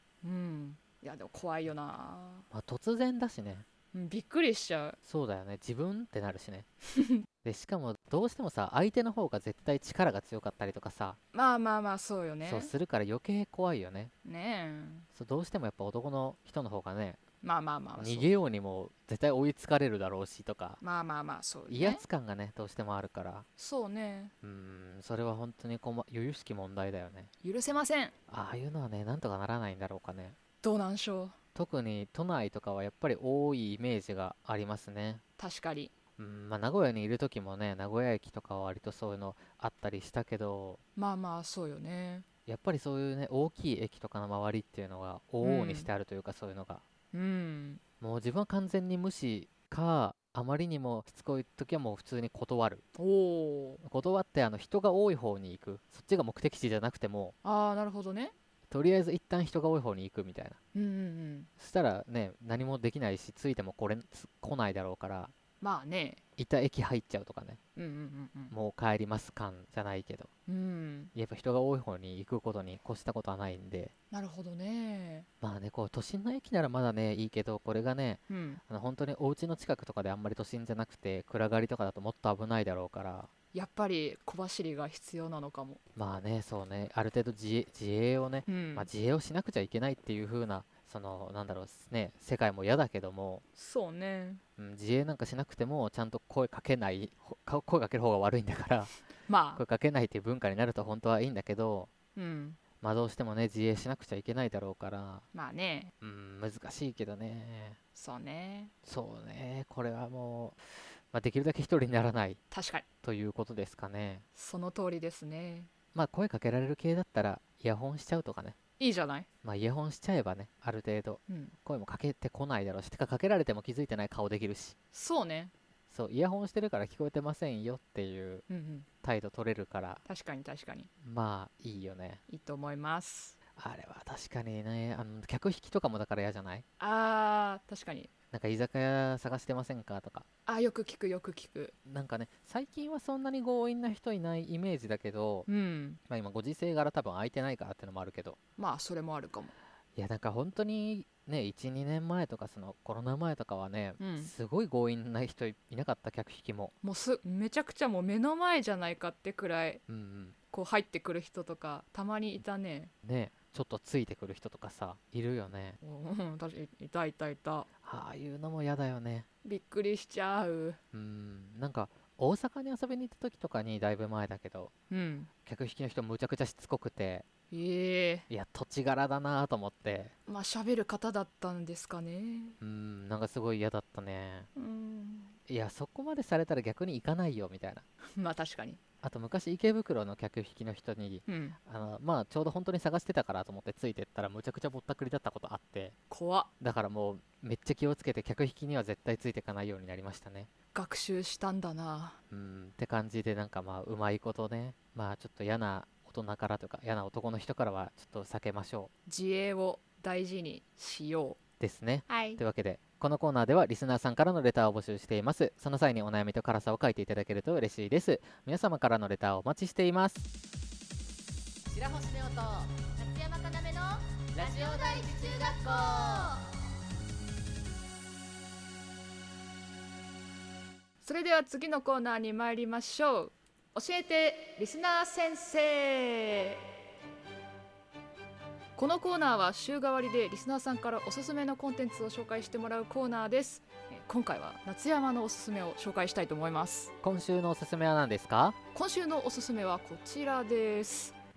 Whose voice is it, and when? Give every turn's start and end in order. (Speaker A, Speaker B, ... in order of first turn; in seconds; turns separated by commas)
Speaker A: 0.2-2.5, Speaker B: 2.5-3.6, Speaker A: 3.9-5.0, Speaker B: 5.0-6.7, Speaker A: 6.9-7.2, Speaker B: 7.4-11.2, Speaker A: 11.3-12.7, Speaker B: 12.4-14.1, Speaker A: 14.2-15.1, Speaker B: 15.1-17.2, Speaker A: 17.4-18.3, Speaker B: 18.0-20.8, Speaker A: 20.8-22.0, Speaker B: 21.7-23.4, Speaker A: 23.6-24.3, Speaker B: 24.4-27.3, Speaker A: 27.4-28.1, Speaker B: 28.3-30.4, Speaker A: 30.6-31.3, Speaker B: 31.5-35.2, Speaker A: 35.4-35.9, Speaker B: 36.2-40.8, Speaker A: 41.0-42.2, Speaker B: 42.5-46.8, Speaker A: 45.4-45.9, Speaker A: 47.1-47.8, Speaker B: 48.0-52.8, Speaker A: 53.0-53.8, Speaker B: 53.8-57.3, Speaker A: 57.4-58.3, Speaker B: 58.7-60.6, Speaker A: 60.7-61.5, Speaker B: 61.6-65.3, Speaker A: 65.6-66.2, Speaker B: 66.4-67.6, Speaker A: 67.8-68.5, Speaker B: 68.5-70.3, Speaker A: 70.5-71.1, Speaker B: 71.1-73.9, Speaker A: 74.1-75.3, Speaker B: 75.4-83.3, Speaker A: 78.3-78.6, Speaker A: 83.5-85.8, Speaker B: 86.0-93.4, Speaker A: 88.5-88.9, Speaker A: 93.5-94.4, Speaker B: 94.6-98.9, Speaker A: 99.3-99.6, Speaker B: 99.5-101.9, Speaker A: 102.2-102.6, Speaker B: 102.8-105.2, Speaker A: 105.3-105.9, Speaker B: 106.0-107.8, Speaker A: 107.9-108.7, Speaker B: 108.8-112.4, Speaker A: 112.5-112.8, Speaker B: 113.0-114.2, Speaker A: 114.3-115.7, Speaker B: 115.9-118.6, Speaker A: 118.8-119.3, Speaker B: 119.4-124.8, Speaker A: 121.3-121.5, Speaker A: 124.9-125.5, Speaker B: 125.9-128.4, Speaker A: 128.5-128.9, Speaker B: 129.0-130.0, Speaker A: 130.1-130.9, Speaker B: 131.0-132.2, Speaker A: 132.3-133.3, Speaker B: 133.6-136.6, Speaker A: 136.8-138.1, Speaker B: 138.3-140.2, Speaker A: 140.4-141.7, Speaker B: 141.8-145.5, Speaker A: 145.5-146.0, Speaker B: 146.1-148.4, Speaker A: 148.6-149.5, Speaker B: 149.9-156.7, Speaker A: 154.0-154.3, Speaker A: 156.8-159.8, Speaker B: 159.9-160.4, Speaker A: 160.5-162.9, Speaker B: 163.0-165.8, Speaker A: 165.8-167.7, Speaker B: 167.8-169.3, Speaker A: 169.4-170.8, Speaker B: 170.9-174.7, Speaker A: 174.9-175.3, Speaker B: 175.4-177.2, Speaker A: 177.5-178.3, Speaker B: 178.3-180.1, Speaker A: 180.3-182.6, Speaker B: 182.6-184.5, Speaker A: 184.6-185.3, Speaker B: 185.5-187.8, Speaker A: 188.0-188.8, Speaker B: 189.0-195.9, Speaker A: 191.3-191.6, Speaker A: 196.1-196.5, Speaker B: 196.6-200.5, Speaker A: 200.7-202.2, Speaker B: 202.3-208.9, Speaker A: 209.1-211.4, Speaker B: 211.6-220.3, Speaker A: 212.1-212.4, Speaker C: 221.7-226.4, Speaker A: 231.0-236.6, Speaker A: 238.8-246.9, Speaker B: 247.0-248.6, Speaker A: 248.7-251.2